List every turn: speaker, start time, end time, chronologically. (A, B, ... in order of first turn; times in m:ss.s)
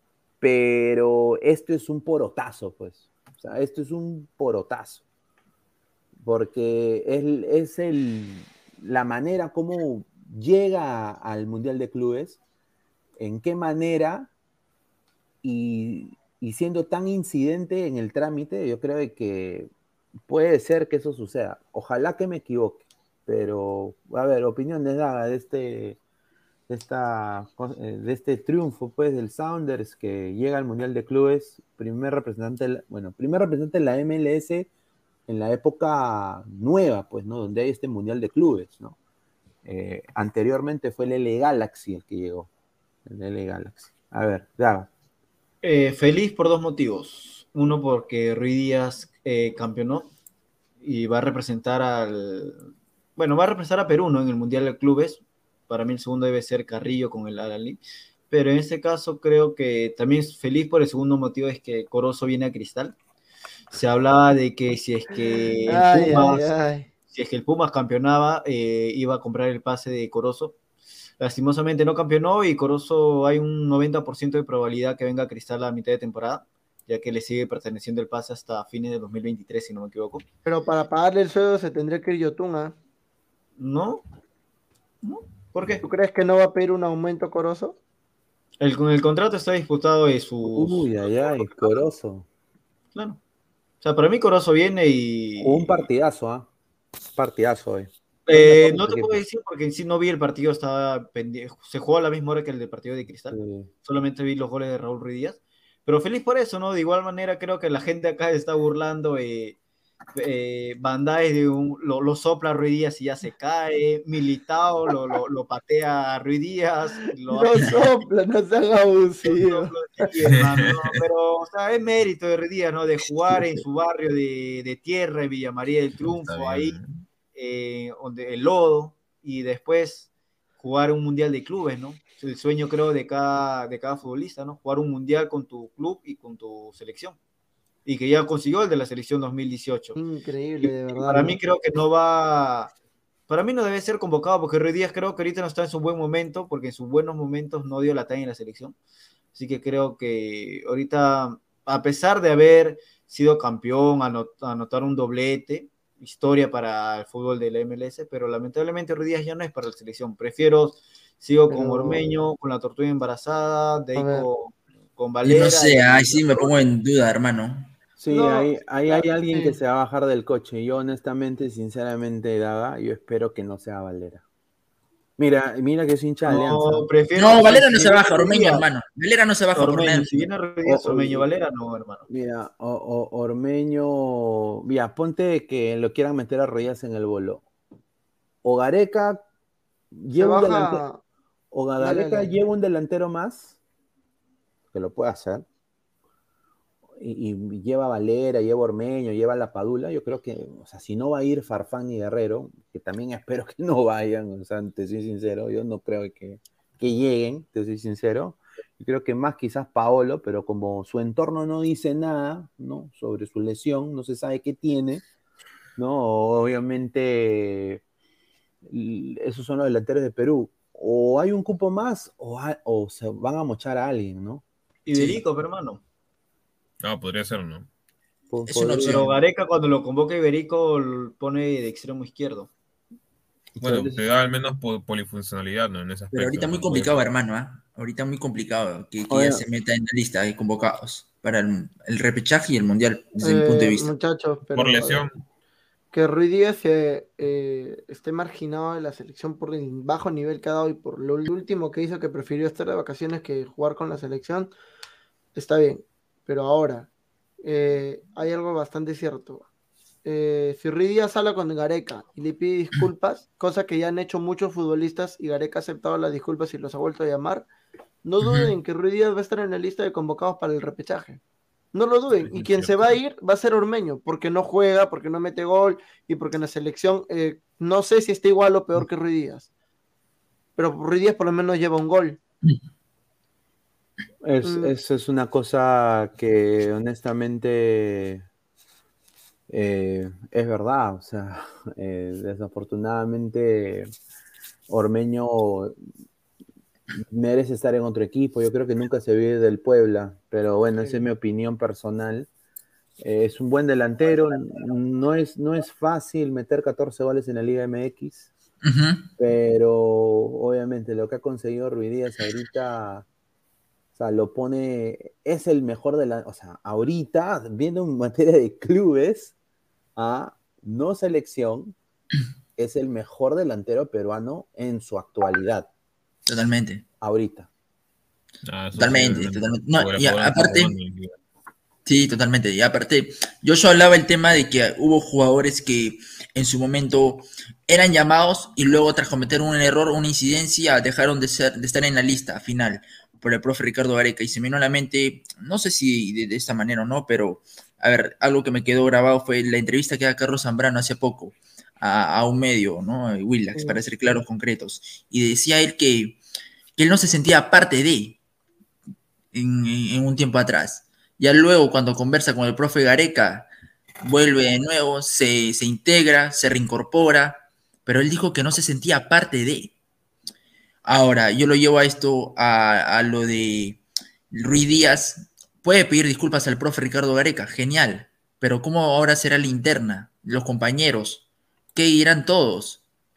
0:00.4-0:05.0 A
0:06.2-0:12.4 A
0:13.2-0:14.3 A
0:15.4-0:19.7 A
0:20.3-0:26.0 A
0:26.7-0:34.7 A
0:35.3-0:39.0 A
0:39.6-0:42.5 A
0:43.0-0:44.9 A
0:45.6-0:50.1 B
0:50.8-0:52.6 B
0:53.2-1:02.9 B
1:03.7-1:06.4 B
1:05.7-1:06.9 C
1:05.7-1:06.4 A
1:07.1-1:10.6 B
1:11.2-1:20.2 B
1:20.4-1:22.7 C
1:23.6-1:24.0 B
1:25.0-1:25.8 B
1:25.8-1:27.8 C
1:28.6-1:31.8 B
1:30.4-1:32.2 A
1:32.9-1:33.2 B
1:33.8-1:35.9 B
1:35.4-1:36.5 A
1:37.1-1:39.2 A
1:38.3-1:49.6 B
1:43.3-1:43.7 A
1:50.1-1:57.9 B
1:57.3-1:59.7 C
1:59.2-2:06.8 B
2:00.2-2:00.9 D
2:03.3-2:03.6 A
2:06.0-2:07.0 D
2:07.3-2:17.2 B
2:17.8-2:20.0 B
2:20.0-2:21.4 C
2:20.6-2:22.7 B
2:23.3-2:28.7 B
2:29.3-2:46.5 B
2:41.5-2:42.0 C
2:43.9-2:44.2 C
2:45.2-2:47.7 E
2:48.0-2:54.2 A
2:48.1-2:49.5 C
2:55.2-2:56.9 A
2:56.2-2:58.7 B
2:57.2-3:00.3 E
2:59.5-3:02.1 B
3:00.6-3:01.2 A
3:02.1-3:07.4 A
3:08.4-3:09.2 A
3:09.9-3:10.8 A
3:10.2-3:11.0 C
3:11.5-3:13.6 A
3:11.8-3:12.3 C
3:14.7-3:15.4 A
3:17.0-3:35.0 A
3:35.8-3:37.8 A
3:38.6-3:44.4 A
3:44.8-3:45.8 B
3:44.9-3:45.2 E
3:46.8-3:47.7 D
3:48.3-3:49.1 A
3:48.5-3:49.1 E
3:48.8-3:52.5 B
3:53.6-3:54.0 A
3:53.6-3:56.9 D
3:56.1-4:03.9 E
3:59.1-3:59.4 A
4:03.2-4:05.1 C
4:04.5-4:05.2 D
4:05.9-4:14.5 C
4:15.3-4:16.9 C
4:17.4-4:19.4 C
4:20.0-4:27.5 C
4:28.0-4:31.2 C
4:28.2-4:28.5 E
4:31.7-4:39.5 C
4:32.2-4:32.8 D
4:40.6-4:42.2 C
4:44.2-4:48.2 A
4:44.4-4:44.7 C
4:49.5-4:53.9 A
4:54.7-4:55.7 A
4:57.0-5:02.3 A
5:03.0-5:08.3 A
5:08.6-5:09.1 E
5:09.2-5:13.0 A
5:14.0-5:19.3 A
5:20.0-5:21.7 A
5:22.6-5:25.7 A
5:26.2-5:26.8 E
5:27.0-5:27.5 A
5:28.4-5:31.1 D
5:28.7-5:30.7 E
5:31.8-5:56.2 E
5:53.5-5:53.8 A
5:56.8-5:58.2 E
5:59.3-6:03.5 E
6:04.0-6:09.7 E
6:10.8-6:13.8 E
6:14.3-6:21.2 E
6:21.7-6:22.8 E